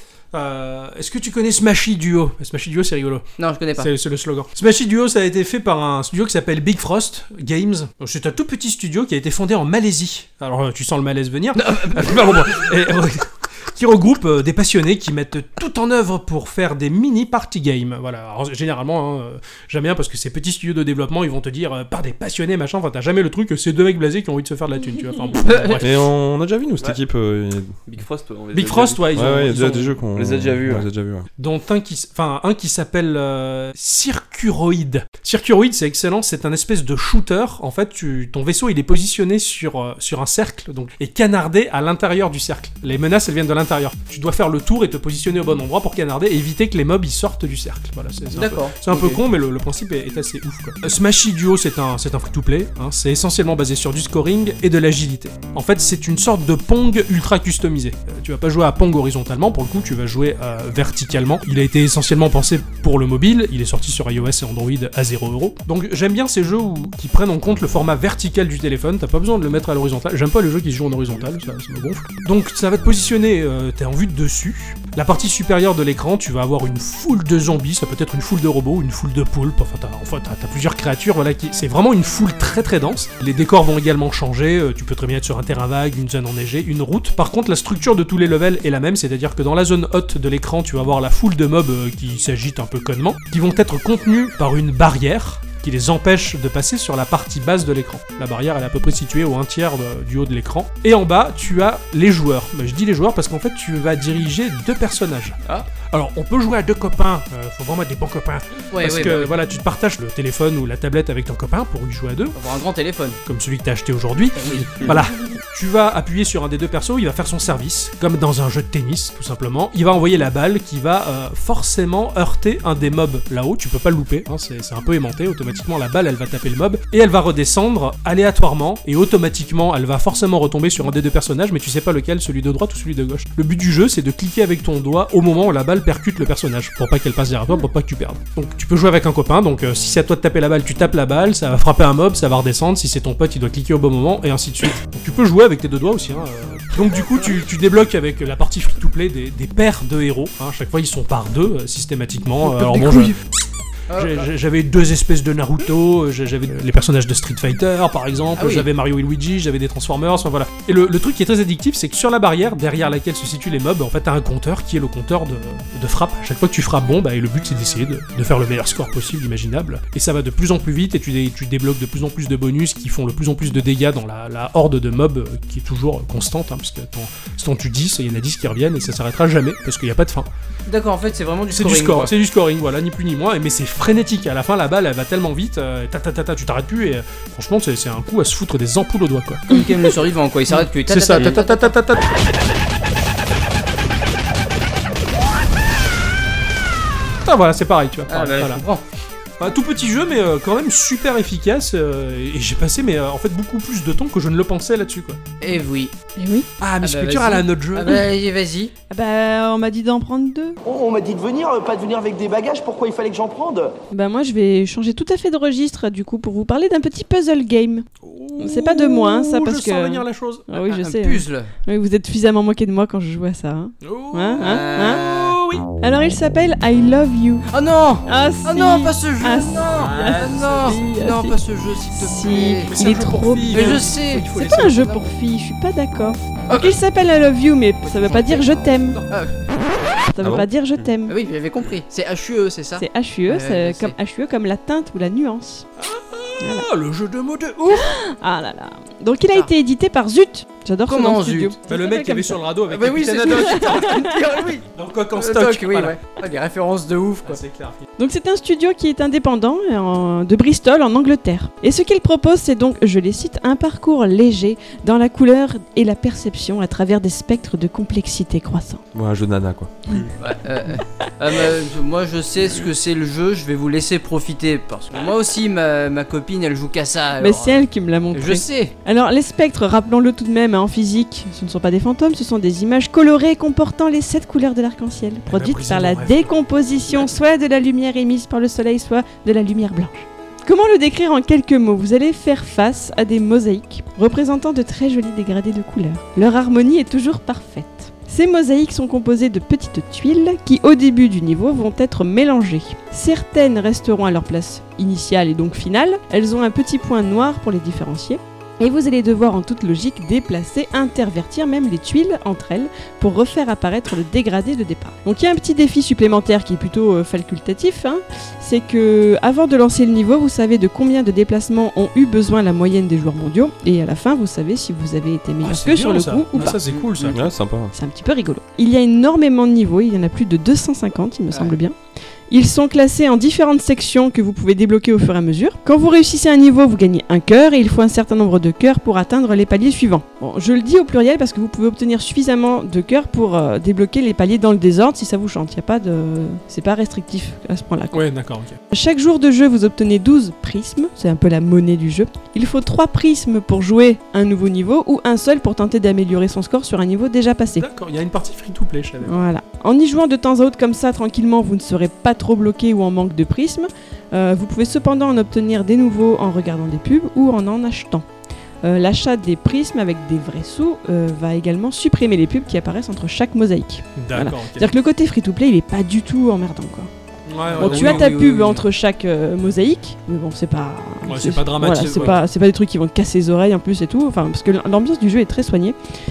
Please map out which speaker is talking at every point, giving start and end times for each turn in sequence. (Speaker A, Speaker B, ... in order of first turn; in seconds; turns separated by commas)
Speaker A: 0.3-3.2, Speaker B: 3.4-3.9, Speaker A: 3.8-25.9, Speaker B: 11.5-12.3, Speaker B: 25.4-25.8, Speaker C: 25.8-27.8, Speaker D: 27.9-30.9, Speaker A: 28.5-30.0, Speaker C: 29.1-31.3, Speaker A: 31.4-112.3, Speaker B: 48.3-49.2, Speaker B: 105.4-105.7, Speaker B: 108.7-109.4, Speaker B: 112.3-113.2, Speaker A: 113.2-153.2, Speaker B: 114.3-115.0, Speaker E: 152.6-153.1, Speaker B: 153.9-154.3, Speaker A: 153.9-180.3, Speaker B: 158.3-158.7, Speaker B: 180.7-182.1, Speaker A: 181.5-189.4, Speaker B: 189.5-191.7, Speaker A: 190.5-192.1, Speaker A: 197.2-198.6, Speaker B: 198.1-198.8, Speaker A: 199.4-205.2, Speaker B: 205.4-205.9, Speaker E: 206.2-206.5, Speaker A: 206.6-208.0, Speaker B: 206.8-208.7, Speaker E: 208.9-210.6, Speaker F: 210.6-213.7, Speaker E: 213.9-217.9, Speaker A: 218.0-220.5, Speaker E: 218.4-225.0, Speaker B: 220.5-221.5, Speaker A: 223.8-225.6, Speaker B: 224.4-225.4, Speaker E: 225.8-227.4, Speaker B: 227.5-232.8, Speaker E: 228.1-231.4, Speaker A: 229.7-230.8, Speaker E: 231.9-239.0, Speaker A: 232.6-235.0, Speaker B: 233.5-234.3, Speaker B: 236.5-236.8, Speaker B: 237.8-238.5, Speaker E: 240.1-241.1, Speaker C: 240.2-240.5, Speaker B: 241.1-243.9, Speaker E: 242.8-245.7, Speaker A: 245.8-247.8, Speaker E: 246.4-246.7, Speaker E: 247.7-252.4, Speaker B: 250.9-251.6, Speaker A: 251.7-254.1, Speaker B: 252.7-257.4, Speaker E: 253.4-254.1, Speaker A: 254.7-256.0, Speaker A: 257.2-257.9, Speaker E: 258.0-268.8, Speaker C: 268.9-270.1, Speaker B: 270.2-278.7, Speaker E: 277.2-326.6, Speaker A: 285.3-286.3, Speaker A: 325.4-327.2, Speaker B: 326.4-327.1, Speaker C: 327.1-327.7, Speaker E: 327.7-331.8, Speaker B: 331.3-331.6, Speaker E: 332.3-348.0, Speaker A: 347.9-348.6, Speaker E: 348.7-357.6, Speaker A: 357.6-359.2, Speaker E: 359.0-368.0, Speaker E: 368.6-376.9, Speaker A: 373.9-374.7, Speaker A: 377.3-378.1, Speaker B: 377.5-378.6, Speaker E: 377.6-385.8, Speaker A: 381.0-382.2, Speaker B: 381.6-382.2